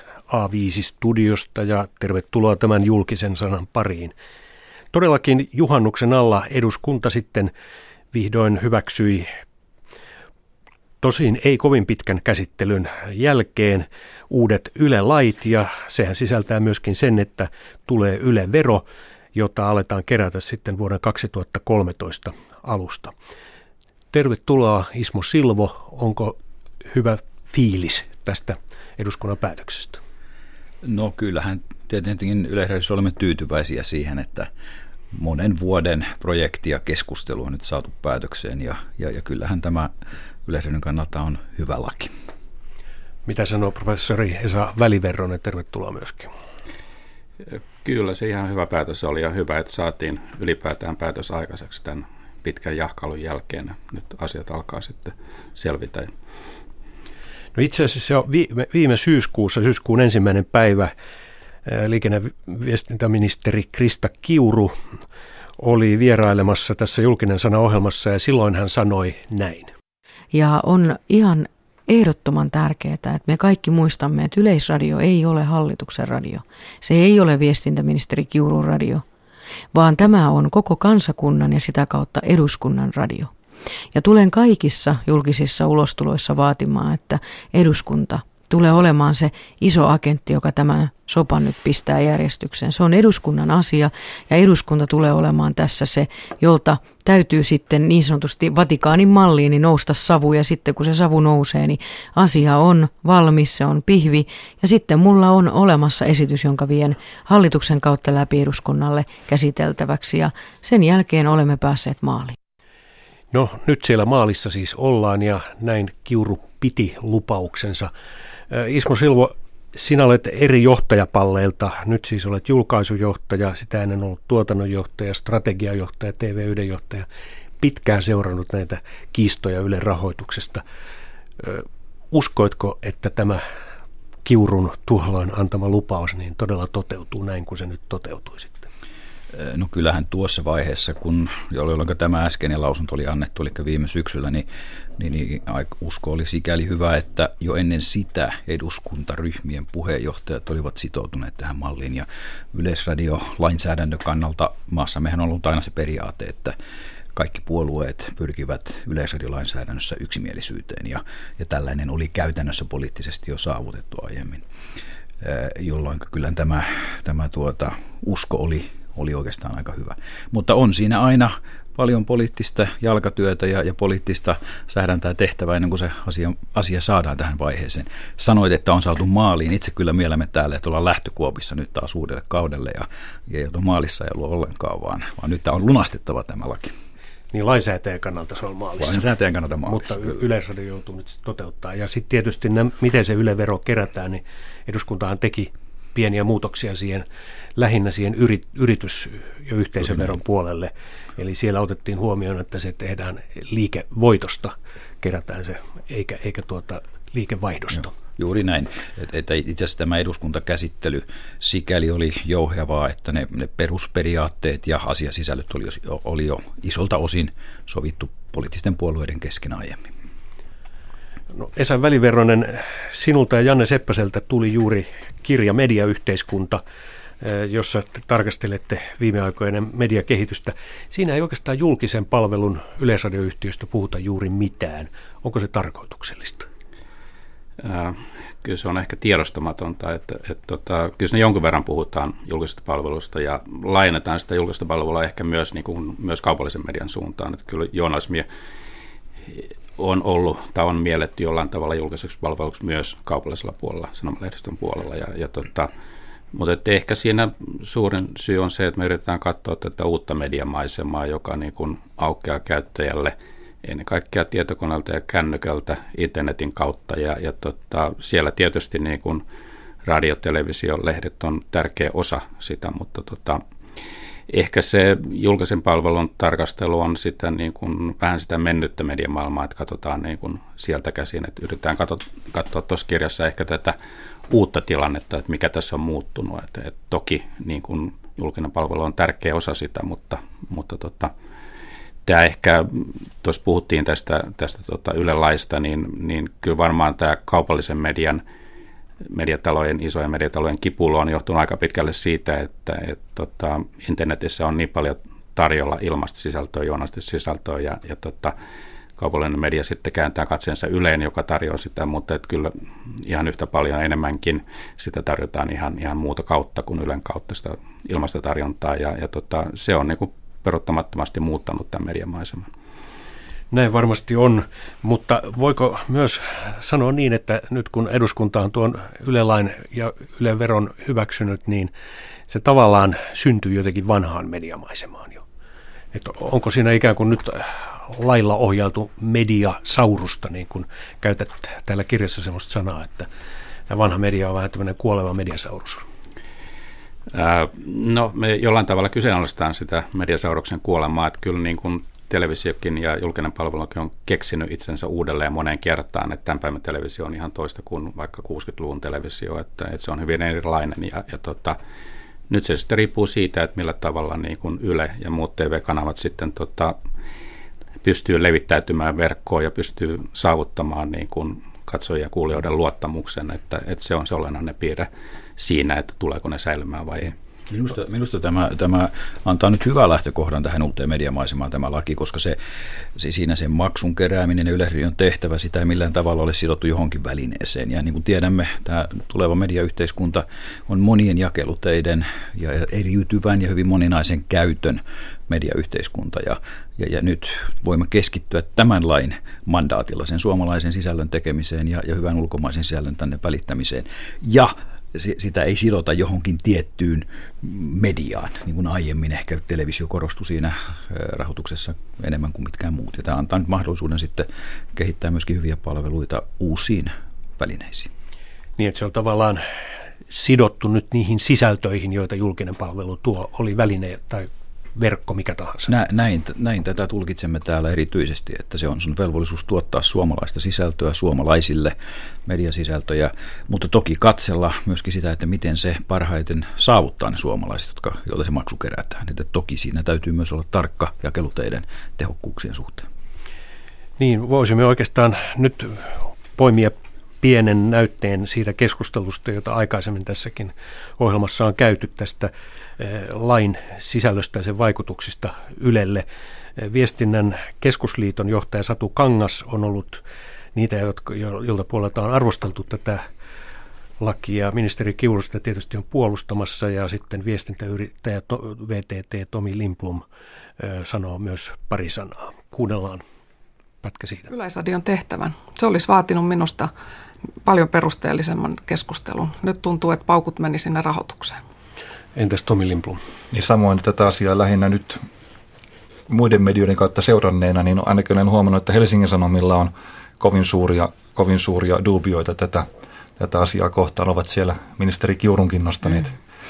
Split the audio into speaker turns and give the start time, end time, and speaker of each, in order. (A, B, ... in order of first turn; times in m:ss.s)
0:00.3-0:04.1 A
0:04.9-0:07.5 A
0:08.1-0:09.3 A
0:11.0-0:23.1 A
0:24.1-0:30.0 A
0:30.8-0:34.5 B
0:35.1-0:39.9 B
0:40.5-0:42.1 B
0:43.2-0:46.3 A
0:47.4-0:56.1 C
0:57.6-1:00.9 A
1:01.7-1:04.8 A
1:05.6-1:09.7 A
1:10.3-1:19.0 D
1:19.7-1:23.3 D
1:23.9-1:52.4 D
1:53.3-1:57.9 A
1:58.5-2:07.1 A
2:07.6-2:10.6 A
2:11.4-2:13.4 A
2:14.2-2:18.7 A
2:19.3-2:24.5 B
2:25.0-2:36.6 B
2:37.1-2:44.4 B
2:45.2-3:06.7 B
3:07.3-3:09.0 A
3:08.8-3:10.2 B
3:09.7-3:27.9 A
3:28.2-3:39.9 B
3:41.3-3:46.6 A
3:47.2-3:56.5 A
3:57.6-4:08.3 C
4:09.3-4:15.7 C
4:16.3-4:29.2 C
4:29.8-4:33.4 C
4:34.3-4:43.8 C
4:44.3-4:51.1 C
4:52.0-4:58.2 C
4:59.0-5:08.4 C
5:09.0-5:22.5 C
5:23.5-5:31.7 A
5:32.3-5:35.2 A
5:35.9-5:43.1 A
5:43.7-5:45.8 A
5:47.1-6:01.6 C
6:02.3-6:06.8 C
6:07.8-6:17.2 C
6:17.5-6:22.4 B
6:23.0-6:57.9 B
6:58.6-6:59.4 A
7:00.1-7:05.7 A
7:05.7-7:22.9 B
7:24.0-7:36.0 A
7:36.6-7:40.0 A
7:40.6-7:43.0 A
7:44.0-7:50.0 A
7:50.6-7:53.0 A
7:53.8-7:54.3 A
7:54.3-7:56.7 E
7:57.4-8:01.4 E
8:02.2-8:03.0 A
8:03.3-8:05.0 F
8:06.1-8:12.7 F
8:13.2-8:16.2 F